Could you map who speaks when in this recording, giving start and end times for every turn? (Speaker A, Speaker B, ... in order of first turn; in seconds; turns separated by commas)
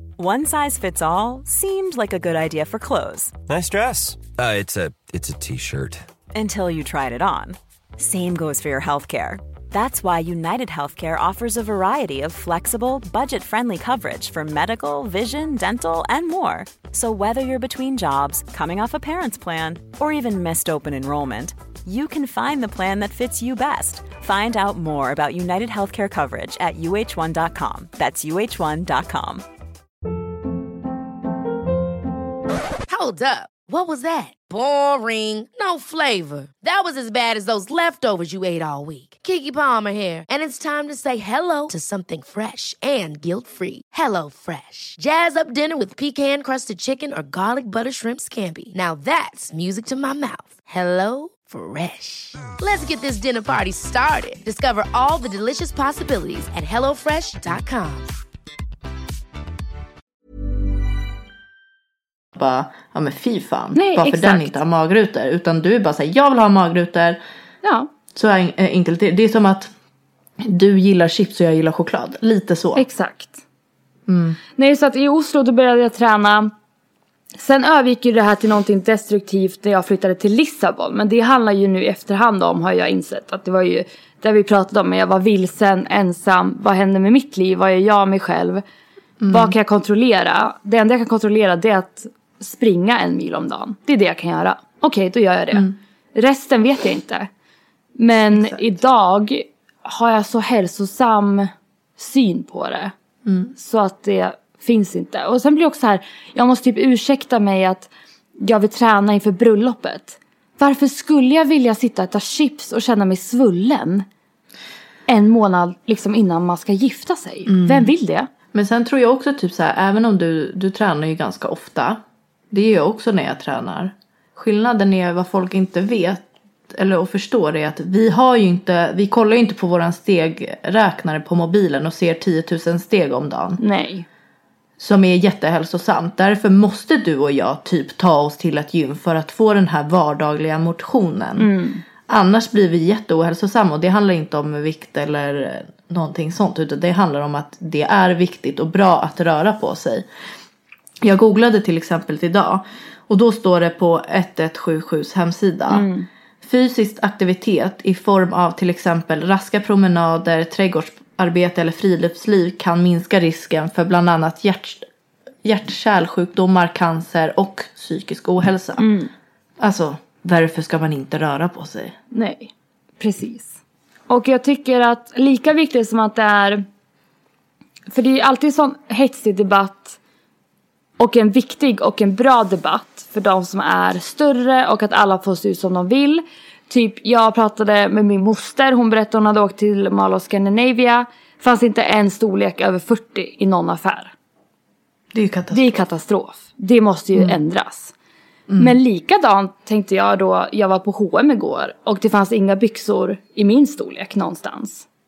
Speaker A: 0.2-3.3, Speaker B: 3.5-6.1, Speaker A: 6.3-29.4, Speaker C: 32.9-58.1, Speaker D: 62.3-67.2, Speaker E: 63.7-64.5, Speaker E: 67.6-67.9, Speaker D: 68.1-69.7, Speaker D: 70.4-72.8, Speaker E: 72.8-73.4, Speaker D: 74.1-74.4, Speaker E: 74.6-76.5, Speaker E: 77.4-88.6, Speaker D: 89.2-89.5, Speaker E: 89.3-97.3, Speaker E: 98.0-102.9, Speaker D: 98.3-98.6, Speaker D: 103.2-103.5, Speaker E: 103.5-114.0, Speaker E: 115.1-118.3, Speaker D: 117.5-117.9, Speaker D: 118.5-122.0, Speaker D: 122.5-133.6, Speaker E: 133.6-134.1, Speaker D: 134.8-141.5, Speaker E: 141.4-141.8, Speaker D: 142.1-150.0, Speaker D: 151.0-155.9, Speaker E: 155.7-156.1, Speaker D: 156.4-164.9, Speaker D: 165.4-168.9, Speaker E: 168.8-169.1, Speaker D: 169.6-171.9, Speaker E: 172.1-173.6, Speaker E: 174.1-176.6, Speaker E: 177.9-180.0, Speaker E: 181.0-194.1, Speaker D: 195.1-195.8, Speaker E: 195.5-197.9, Speaker D: 198.5-198.8, Speaker E: 198.6-204.8